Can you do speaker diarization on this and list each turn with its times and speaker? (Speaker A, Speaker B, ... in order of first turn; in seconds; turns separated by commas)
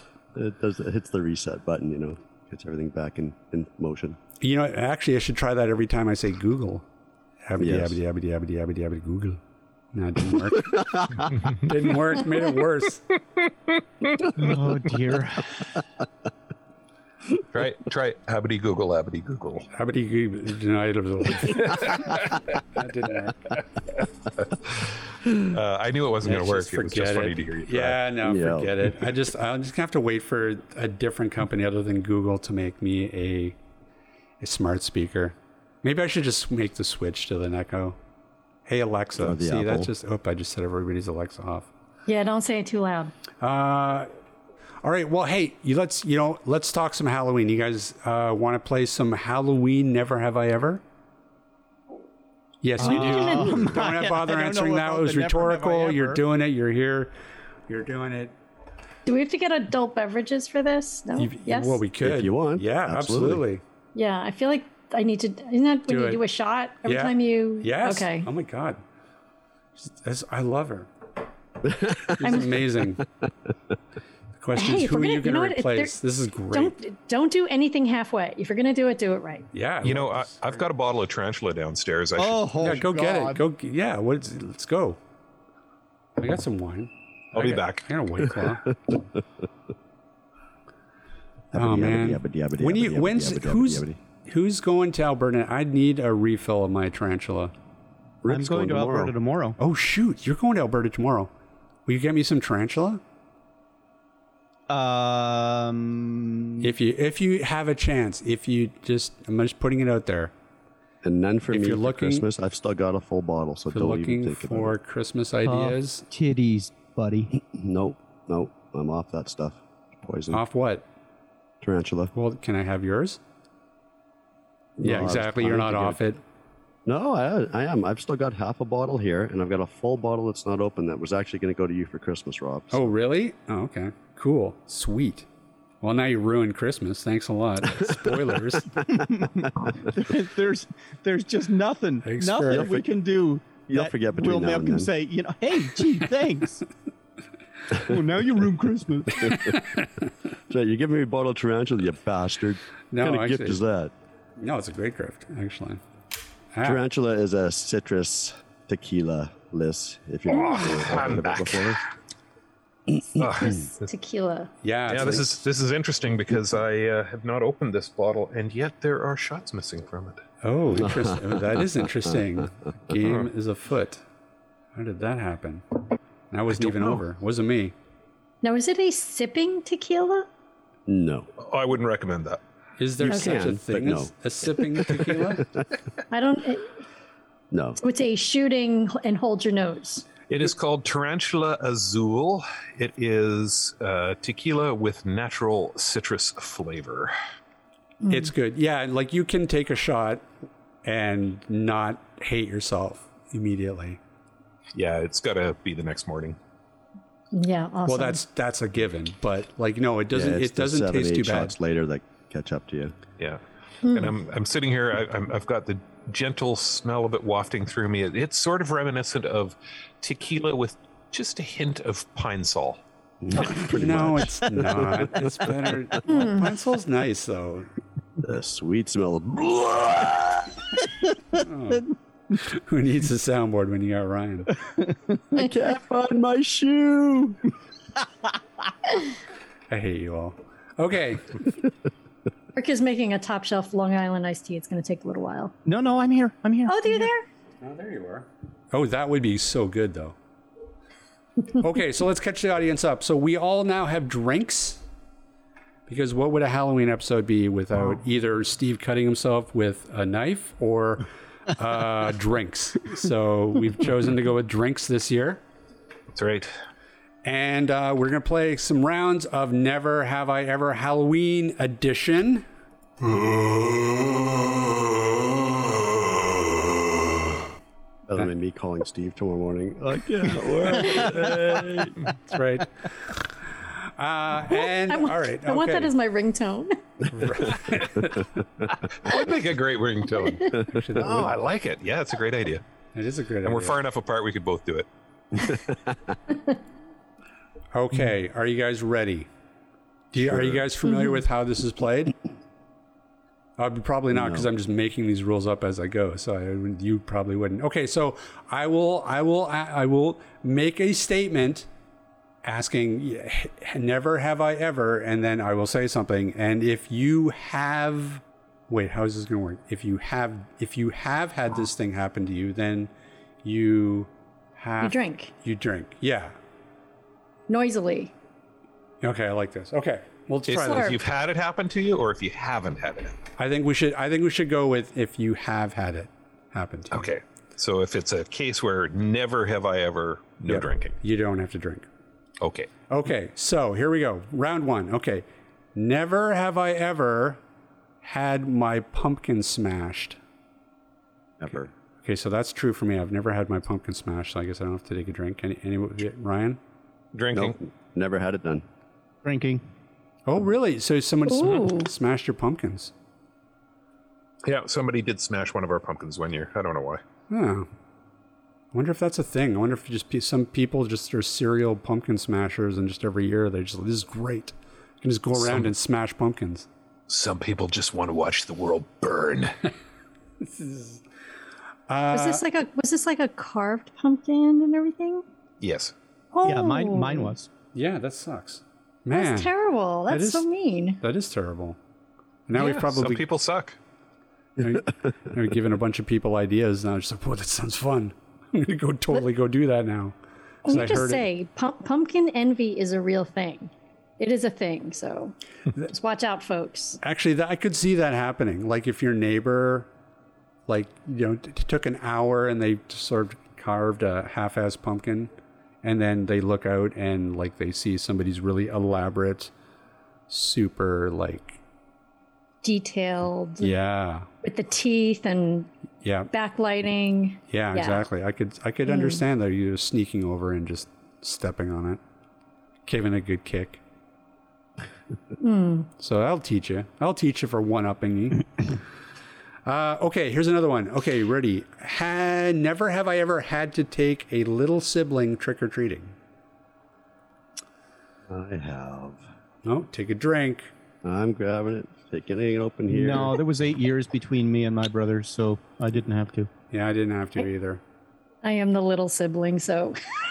Speaker A: 0.3-4.2, Speaker B: 4.4-6.8, Speaker B: 7.5-9.4, Speaker A: 7.6-8.0, Speaker B: 9.9-13.0, Speaker A: 10.8-11.2, Speaker C: 14.4-15.6, Speaker D: 17.5-19.7, Speaker B: 19.7-22.2, Speaker D: 21.5-22.4, Speaker B: 22.7-23.5, Speaker D: 24.4-28.0, Speaker B: 26.2-33.6, Speaker A: 28.2-28.9, Speaker B: 34.4-38.0, Speaker B: 38.7-41.7, Speaker A: 39.2-39.9, Speaker E: 42.1-43.1, Speaker B: 43.4-44.1, Speaker B: 44.8-50.8, Speaker B: 52.6-57.1, Speaker C: 52.8-56.2, Speaker E: 52.8-53.7, Speaker B: 57.7-58.3, Speaker E: 59.1-61.8, Speaker B: 61.2-63.6, Speaker A: 62.0-63.5, Speaker E: 64.0-68.3, Speaker B: 65.9-66.2, Speaker B: 66.8-68.8, Speaker B: 69.8-70.9, Speaker A: 71.6-72.3, Speaker B: 72.2-73.0, Speaker B: 74.4-76.8, Speaker E: 74.6-76.0, Speaker E: 76.5-79.5, Speaker B: 79.5-80.6, Speaker D: 79.8-82.5, Speaker C: 82.2-83.4, Speaker B: 82.6-85.0, Speaker B: 86.2-88.7, Speaker D: 87.3-87.9, Speaker A: 91.5-94.0, Speaker B: 91.5-97.5, Speaker A: 98.2-99.1, Speaker C: 98.3-99.6, Speaker B: 99.6-101.3, Speaker B: 101.9-103.0, Speaker C: 104.7-106.7, Speaker B: 106.6-110.3, Speaker A: 111.0-114.8, Speaker B: 111.5-112.3, Speaker B: 113.7-116.0, Speaker C: 115.5-117.3, Speaker A: 117.3-120.4, Speaker B: 120.3-120.8, Speaker A: 121.6-122.1, Speaker B: 122.1-123.2, Speaker A: 124.8-126.0, Speaker B: 124.8-126.2, Speaker A: 126.9-132.9, Speaker B: 132.7-135.3, Speaker B: 135.8-138.8, Speaker C: 138.9-146.6, Speaker B: 142.0-142.7, Speaker A: 142.5-142.9, Speaker A: 143.6-144.9, Speaker C: 147.7-149.4, Speaker A: 150.5-153.9, Speaker B: 152.9-153.6, Speaker B: 154.4-155.8, Speaker B: 156.6-156.8, Speaker A: 156.6-161.8, Speaker D: 160.3-161.8, Speaker E: 160.3-160.8, Speaker D: 163.2-163.8, Speaker E: 163.4-164.5, Speaker B: 164.6-165.3, Speaker D: 164.9-170.2, Speaker B: 170.4-174.0, Speaker A: 170.9-171.2, Speaker B: 174.8-177.7, Speaker D: 176.6-177.0, Speaker E: 178.4-180.3, Speaker A: 180.9-181.3, Speaker D: 181.4-182.4, Speaker B: 182.8-185.5, Speaker A: 183.0-185.4, Speaker E: 183.1-183.4, Speaker E: 186.1-186.8, Speaker A: 187.5-187.8, Speaker E: 187.8-190.1, Speaker D: 190.3-197.1, Speaker E: 198.0-198.3, Speaker B: 198.1-200.3, Speaker B: 200.8-204.0, Speaker D: 204.7-206.4, Speaker E: 207.3-208.2, Speaker B: 207.9-211.6, Speaker A: 210.1-213.0, Speaker D: 213.2-222.8, Speaker E: 213.9-214.1, Speaker A: 223.2-225.1, Speaker B: 223.6-227.7, Speaker E: 226.1-226.4, Speaker A: 228.2-230.7, Speaker B: 231.3-234.5, Speaker A: 235.3-237.4, Speaker B: 239.7-241.5, Speaker E: 242.6-245.6, Speaker C: 245.7-247.1, Speaker E: 246.7-247.3, Speaker B: 247.6-250.2, Speaker B: 251.5-254.8, Speaker B: 255.9-265.4, Speaker D: 266.1-266.5, Speaker B: 267.2-272.4, Speaker A: 278.1-281.9, Speaker D: 280.9-281.8, Speaker B: 282.3-285.9, Speaker E: 284.5-286.8, Speaker B: 287.1-288.3, Speaker D: 289.0-292.6, Speaker B: 290.7-291.3, Speaker B: 292.9-293.8, Speaker D: 293.4-294.9, Speaker B: 297.7-299.3, Speaker B: 300.1-302.1, Speaker A: 300.3-300.6, Speaker E: 300.9-301.2, Speaker B: 303.6-311.7, Speaker A: 304.1-304.5, Speaker B: 312.4-322.9, Speaker B: 323.4-326.3, Speaker E: 324.8-325.3, Speaker E: 327.5-328.1, Speaker B: 329.0-331.0, Speaker D: 330.5-333.2, Speaker E: 330.6-331.0, Speaker B: 333.4-337.1, Speaker D: 336.9-341.0, Speaker B: 340.5-341.9, Speaker D: 342.4-342.7, Speaker B: 342.9-347.4, Speaker B: 348.0-350.2, Speaker A: 351.4-351.7, Speaker B: 352.0-356.6, Speaker D: 357.1-357.6, Speaker A: 357.3-358.7, Speaker C: 359.2-359.6, Speaker B: 360.3-362.9, Speaker E: 361.3-361.9, Speaker D: 364.4-367.0, Speaker B: 367.3-367.7, Speaker B: 368.7-376.7, Speaker D: 375.4-375.7, Speaker D: 377.1-379.6, Speaker B: 380.4-381.0, Speaker B: 381.9-382.4, Speaker E: 382.1-385.2, Speaker D: 385.6-385.9, Speaker E: 386.3-387.3, Speaker C: 386.4-387.5, Speaker B: 387.8-389.5, Speaker E: 389.1-391.0, Speaker B: 390.1-390.5, Speaker B: 391.0-391.8, Speaker B: 392.5-393.2, Speaker D: 392.5-393.8, Speaker B: 394.6-401.2, Speaker E: 400.7-407.0, Speaker B: 407.0-409.9, Speaker B: 410.7-415.3, Speaker B: 415.8-419.5, Speaker B: 420.3-421.6, Speaker E: 422.6-423.8, Speaker B: 423.6-424.3, Speaker E: 424.4-425.7, Speaker B: 426.0-426.3, Speaker E: 426.3-428.0, Speaker B: 427.5-432.0, Speaker E: 428.9-429.2, Speaker B: 432.9-433.8, Speaker E: 435.4-435.9, Speaker B: 436.0-438.7, Speaker B: 439.7-446.1, Speaker A: 448.3-449.2, Speaker B: 449.6-450.7, Speaker A: 451.0-453.4, Speaker C: 452.9-456.5, Speaker B: 456.7-457.8, Speaker E: 458.4-460.0